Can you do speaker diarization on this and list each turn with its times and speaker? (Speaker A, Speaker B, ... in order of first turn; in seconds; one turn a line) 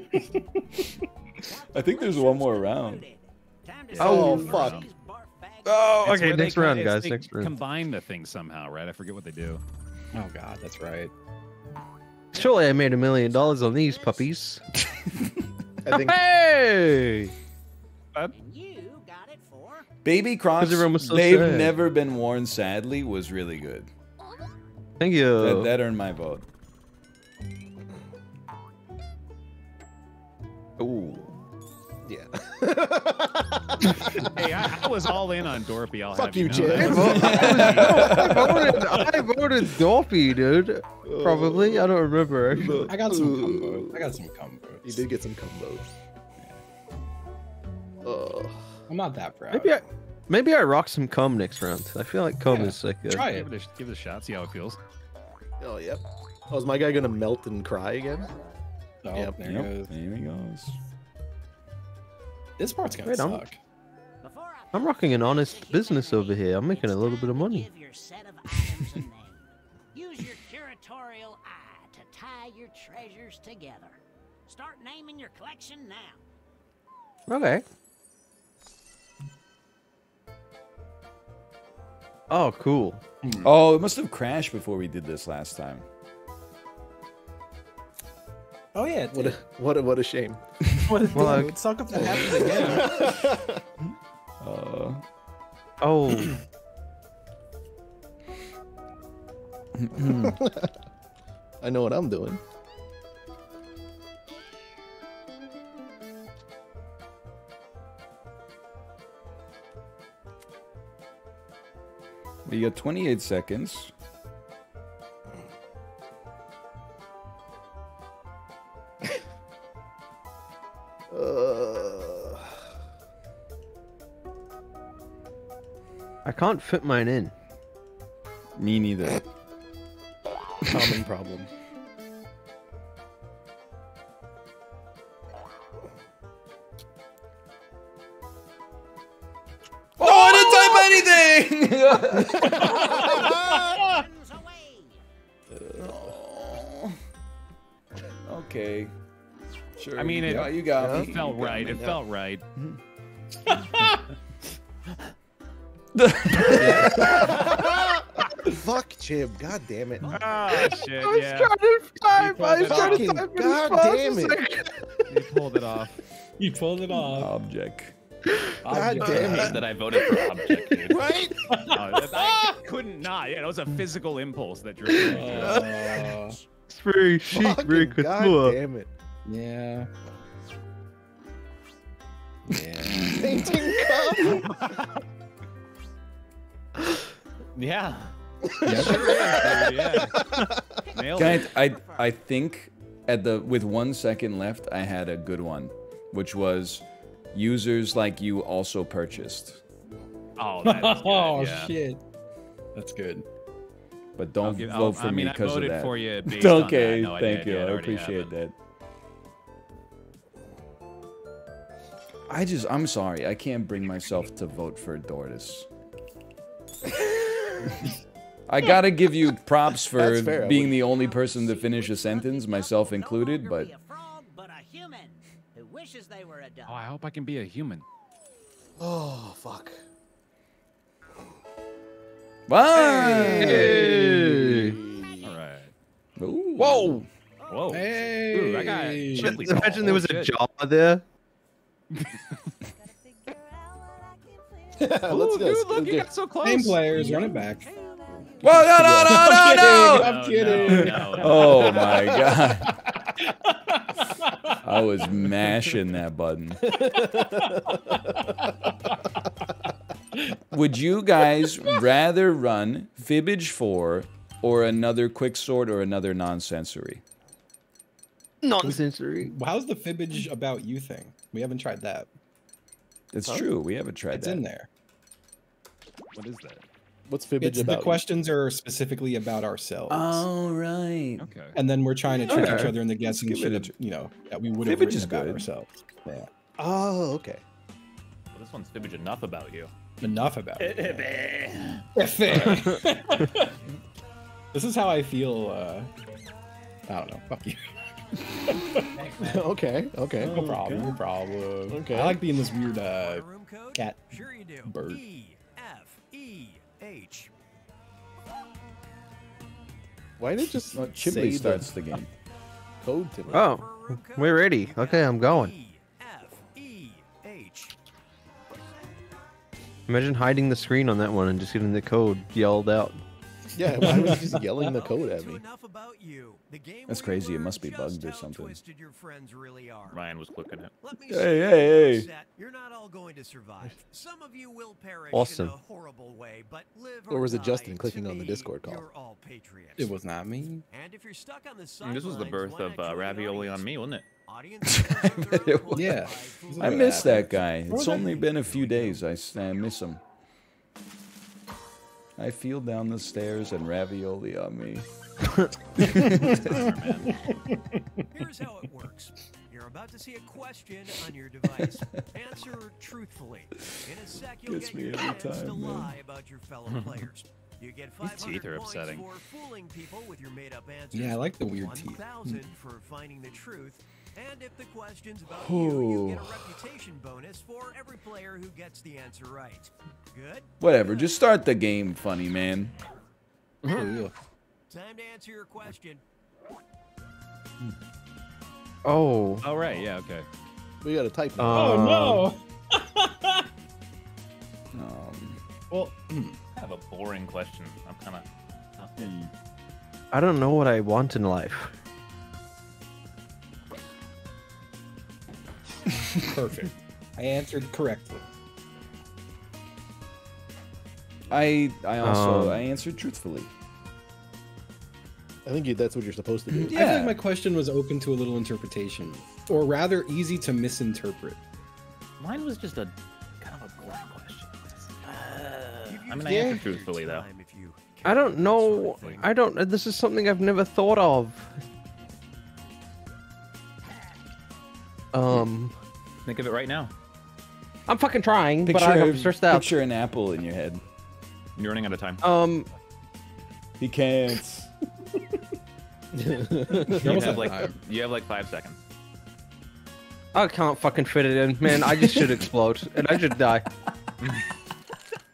Speaker A: 1.4-6.2
Speaker B: 1.7-3.1
Speaker C: 3.9-4.9
Speaker D: 4.0-4.8
Speaker E: 4.0-4.5
Speaker E: 5.7-7.6
Speaker C: 6.0-9.6
Speaker F: 10.1-11.1
Speaker E: 12.3-14.6
Speaker A: 12.3-14.3
Speaker D: 15.8-16.2
Speaker E: 15.9-17.3
Speaker A: 18.3-19.9
Speaker B: 20.0-23.9
Speaker E: 20.6-21.8
Speaker E: 25.0-25.7
Speaker B: 25.4-26.5
Speaker E: 30.8-31.3
Speaker D: 32.0-35.0
Speaker C: 34.2-38.3
Speaker D: 36.1-39.3
Speaker E: 36.7-42.9
Speaker B: 37.0-39.0
Speaker D: 41.0-42.0
Speaker D: 42.5-44.1
Speaker F: 42.8-45.0
Speaker D: 44.8-45.9
Speaker D: 48.0-48.6
Speaker F: 48.9-49.8
Speaker E: 49.5-53.2
Speaker F: 52.5-53.5
Speaker C: 53.1-54.8
Speaker D: 55.6-58.3
Speaker F: 59.0-59.9
Speaker B: 59.4-60.8
Speaker F: 62.6-63.6
Speaker E: 63.0-63.5
Speaker A: 64.2-76.2
Speaker E: 64.7-67.7
Speaker E: 77.3-77.6
Speaker E: 82.3-83.0
Speaker F: 83.2-83.5
Speaker B: 83.4-85.9
Speaker F: 88.7-89.4
Speaker D: 89.1-90.4
Speaker F: 90.8-92.9
Speaker E: 91.1-91.6
Speaker D: 92.0-93.6
Speaker C: 92.4-92.9
Speaker B: 94.4-95.0
Speaker E: 95.8-96.4
Speaker B: 99.8-100.4
Speaker D: 100.0-100.7
Speaker D: 101.6-102.4
Speaker B: 112.5-113.9
Speaker D: 121.1-122.5
Speaker E: 126.2-127.3
Speaker B: 128.6-129.2
Speaker D: 130.7-131.5
Speaker B: 140.0-142.8
Speaker D: 140.1-140.9
Speaker D: 142.3-143.8
Speaker A: 142.4-145.0
Speaker B: 145.6-147.0
Speaker B: 148.3-148.9
Speaker B: 149.8-152.0
Speaker C: 150.0-152.4
Speaker D: 150.7-151.1
Speaker F: 153.5-154.0
Speaker B: 155.9-157.3
Speaker F: 156.5-157.1
Speaker D: 156.6-160.4
Speaker C: 160.1-161.6
Speaker E: 160.5-164.7
Speaker C: 162.1-163.2
Speaker D: 162.7-164.5
Speaker C: 165.1-166.0
Speaker F: 166.4-167.3
Speaker B: 167.1-168.0
Speaker F: 168.6-169.7
Speaker D: 168.7-170.3
Speaker G: 169.0-171.0
Speaker D: 170.9-171.6
Speaker F: 171.5-171.8
Speaker C: 171.7-175.8
Speaker F: 175.0-176.4
Speaker E: 175.4-176.0
Speaker E: 176.7-178.6
Speaker D: 177.3-178.9
Speaker F: 179.3-179.9
Speaker F: 182.4-183.5
Speaker D: 183.1-184.7
Speaker C: 184.2-184.8
Speaker G: 187.6-188.1
Speaker D: 188.4-190.6
Speaker F: 188.7-189.2
Speaker C: 188.7-190.4
Speaker A: 190.9-192.1
Speaker C: 190.9-191.5
Speaker B: 191.2-199.6
Speaker C: 200.4-201.8
Speaker F: 200.6-202.0
Speaker F: 202.8-203.2
Speaker B: 204.2-208.5
Speaker C: 204.4-208.3
Speaker B: 212.3-215.7
Speaker B: 218.5-223.7
Speaker D: 219.8-220.8
Speaker A: 220.8-226.8
Speaker C: 226.7-227.8
Speaker D: 228.8-229.8
Speaker B: 232.5-234.0
Speaker C: 232.7-233.6
Speaker E: 233.2-234.8
Speaker D: 233.6-235.3
Speaker C: 235.2-235.7
Speaker B: 236.2-237.1
Speaker E: 236.6-237.0
Speaker A: 237.4-238.2
Speaker C: 237.5-240.4
Speaker F: 237.7-240.1
Speaker E: 239.2-241.0
Speaker C: 241.9-242.4
Speaker A: 242.8-245.1
Speaker D: 244.8-246.1
Speaker C: 245.1-247.3
Speaker F: 246.4-247.7
Speaker A: 247.2-249.3
Speaker B: 248.4-250.2
Speaker D: 248.6-249.2
Speaker F: 249.0-254.6
Speaker G: 249.9-252.0
Speaker C: 250.4-250.8
Speaker B: 250.7-252.8
Speaker A: 251.6-252.3
Speaker B: 254.6-256.8
Speaker D: 256.6-258.3
Speaker B: 260.5-267.0
Speaker E: 268.4-269.3
Speaker F: 268.6-272.1
Speaker B: 273.1-274.4
Speaker F: 274.1-274.7
Speaker C: 276.1-276.6
Speaker D: 277.1-278.1
Speaker F: 277.4-280.3
Speaker B: 279.9-281.3
Speaker C: 281.2-281.6
Speaker F: 281.6-286.3
Speaker E: 282.3-282.8
Speaker B: 282.4-283.7
Speaker B: 284.6-285.5
Speaker D: 286.6-287.4
Speaker G: 288.3-289.7
Speaker F: 290.0-291.1
Speaker G: 290.6-291.9
Speaker F: 291.9-293.6
Speaker F: 294.5-295.9
Speaker F: 296.9-297.7
Speaker F: 298.4-299.0
Speaker G: 299.1-299.4
Speaker D: 299.1-300.6
Speaker F: 300.2-305.0
Speaker B: 300.2-301.0
Speaker D: 301.7-302.2
Speaker H: 302.6-307.3
Speaker D: 310.2-311.7
Speaker B: 310.7-312.1
Speaker D: 312.8-313.5
Speaker H: 313.3-317.8
Speaker E: 313.3-315.5
Speaker E: 319.9-323.0
Speaker D: 323.6-325.4
Speaker F: 323.8-324.7
Speaker H: 324.6-330.0
Speaker B: 326.9-328.6
Speaker G: 329.9-330.7
Speaker H: 330.8-340.0
Speaker B: 331.1-332.1
Speaker E: 335.1-335.6
Speaker D: 337.1-338.9
Speaker F: 339.8-340.6
Speaker H: 340.7-343.7
Speaker G: 341.8-344.1
Speaker H: 344.3-347.3
Speaker B: 344.7-346.1
Speaker F: 345.7-348.3
Speaker B: 346.6-350.0
Speaker C: 348.6-348.9
Speaker B: 352.2-354.9
Speaker B: 355.8-356.7
Speaker F: 355.9-358.0
Speaker C: 356.0-357.2
Speaker H: 358.1-381.1
Speaker B: 364.4-365.9
Speaker C: 368.0-369.1
Speaker F: 370.9-372.1
Speaker B: 375.3-376.6
Speaker B: 380.6-382.7
Speaker F: 383.6-384.1
Speaker H: 384.7-386.0
Speaker E: 388.9-389.5
Speaker C: 389.4-390.3
Speaker D: 390.8-392.1
Speaker E: 391.4-392.3
Speaker F: 391.5-393.5
Speaker B: 394.7-395.4
Speaker F: 396.0-396.4
Speaker G: 396.5-398.3
Speaker G: 398.8-399.1
Speaker C: 399.0-399.3
Speaker E: 400.1-401.7
Speaker F: 406.1-408.2
Speaker B: 411.3-413.5
Speaker E: 412.0-412.6
Speaker D: 415.5-416.8
Speaker B: 416.5-417.2
Speaker F: 416.7-421.4
Speaker G: 422.2-427.3
Speaker H: 425.9-428.1
Speaker D: 426.2-426.6
Speaker E: 428.0-431.6
Speaker C: 428.1-429.3
Speaker E: 435.1-435.7
Speaker G: 436.2-436.9
Speaker E: 437.9-439.7
Speaker B: 438.6-440.8
Speaker G: 441.6-442.2
Speaker E: 442.2-442.7
Speaker B: 443.8-444.7
Speaker D: 446.1-447.4
Speaker F: 446.8-447.8
Speaker G: 446.9-448.8
Speaker E: 450.3-453.7